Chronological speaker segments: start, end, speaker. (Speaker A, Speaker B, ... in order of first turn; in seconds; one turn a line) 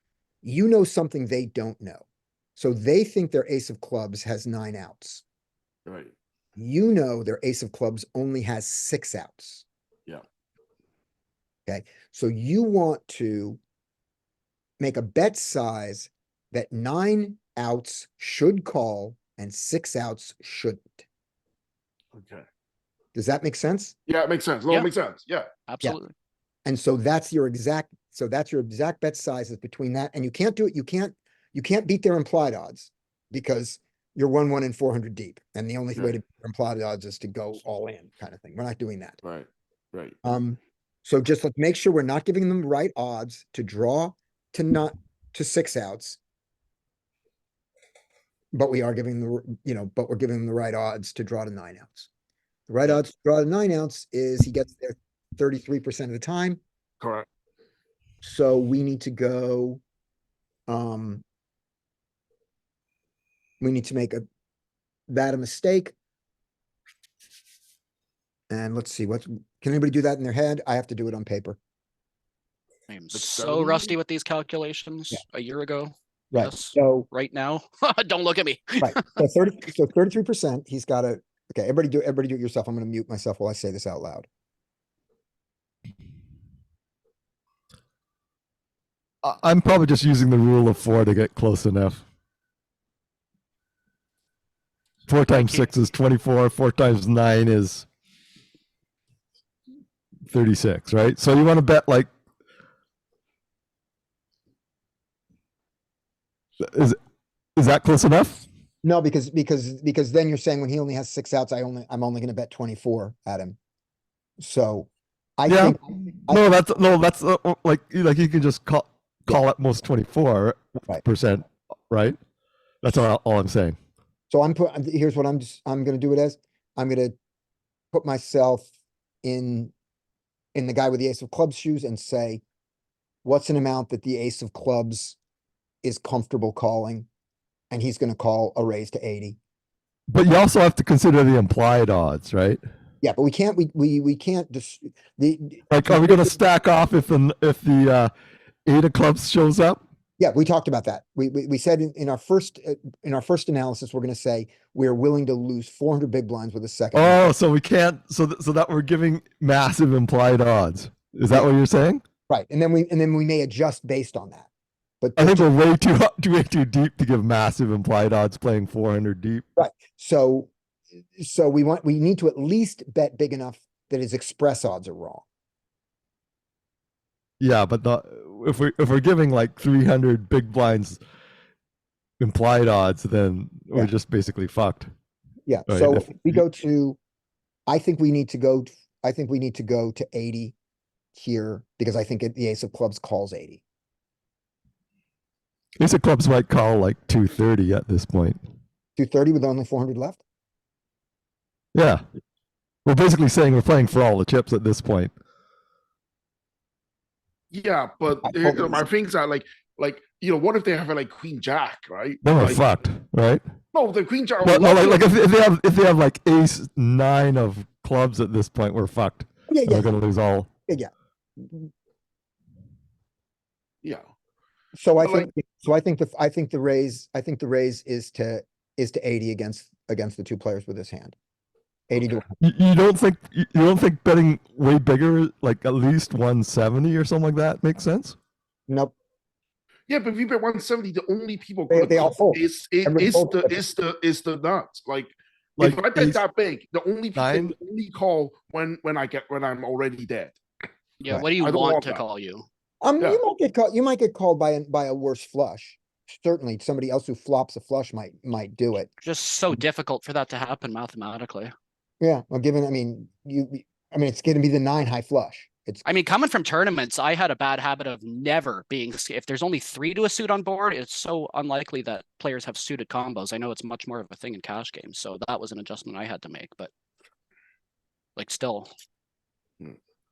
Speaker A: 0.4-2.0
Speaker A: 2.5-5.2
Speaker B: 5.8-6.1
Speaker A: 6.5-9.6
Speaker A: 11.7-13.6
Speaker A: 14.8-21.0
Speaker B: 22.1-22.4
Speaker A: 23.1-23.9
Speaker B: 24.1-25.5
Speaker C: 25.7-26.1
Speaker A: 26.6-39.2
Speaker B: 39.2-40.2
Speaker A: 40.2-46.2
Speaker A: 48.5-52.1
Speaker A: 52.7-56.6
Speaker B: 57.0-57.2
Speaker A: 58.2-59.8
Speaker A: 60.7-61.2
Speaker A: 63.6-64.2
Speaker A: 65.1-65.9
Speaker A: 68.5-71.6
Speaker C: 72.9-79.2
Speaker B: 73.1-74.0
Speaker A: 76.3-77.0
Speaker A: 78.8-84.3
Speaker D: 89.2-92.0
Speaker D: 95.1-97.8
Speaker C: 95.3-95.7
Speaker D: 100.3-102.1
Speaker D: 106.6-107.0
Speaker D: 107.5-108.4
Speaker A: 108.8-113.6
Speaker A: 114.4-116.4
Speaker D: 115.5-122.2
Speaker D: 122.8-123.8
Speaker A: 124.3-127.1
Speaker A: 127.9-128.7
Speaker A: 129.2-129.7
Speaker A: 130.5-132.4
Speaker A: 133.2-135.2
Speaker A: 135.8-137.1
Speaker A: 137.7-139.4
Speaker D: 140.1-142.6
Speaker A: 143.0-146.4
Speaker D: 145.7-148.1
Speaker D: 148.6-149.8
Speaker A: 150.2-157.3
Speaker D: 156.9-162.0
Speaker A: 162.3-164.5
Speaker A: 165.0-165.5
Speaker D: 165.2-169.4
Speaker A: 169.6-170.5
Speaker A: 171.2-175.2
Speaker D: 177.4-181.0
Speaker D: 182.2-184.9
Speaker A: 185.5-187.0
Speaker D: 185.7-186.4
Speaker A: 187.7-190.5
Speaker A: 191.1-193.6
Speaker D: 195.8-198.4
Speaker A: 199.0-200.2
Speaker D: 201.7-202.0
Speaker D: 202.8-205.1
Speaker B: 207.5-212.6
Speaker A: 208.2-208.8
Speaker D: 212.2-213.4
Speaker B: 213.7-215.1
Speaker D: 214.4-220.5
Speaker A: 219.5-219.9
Speaker A: 220.7-221.7
Speaker A: 224.7-231.2
Speaker B: 225.0-225.3
Speaker A: 231.9-232.3
Speaker D: 232.4-238.2
Speaker A: 238.7-238.9
Speaker B: 239.9-250.4
Speaker A: 241.7-243.6
Speaker D: 245.6-246.2
Speaker D: 247.2-247.5
Speaker C: 251.0-252.4
Speaker B: 251.4-252.0
Speaker A: 252.8-258.9
Speaker C: 259.0-261.5
Speaker A: 262.0-265.8
Speaker C: 265.8-276.7
Speaker C: 278.2-278.7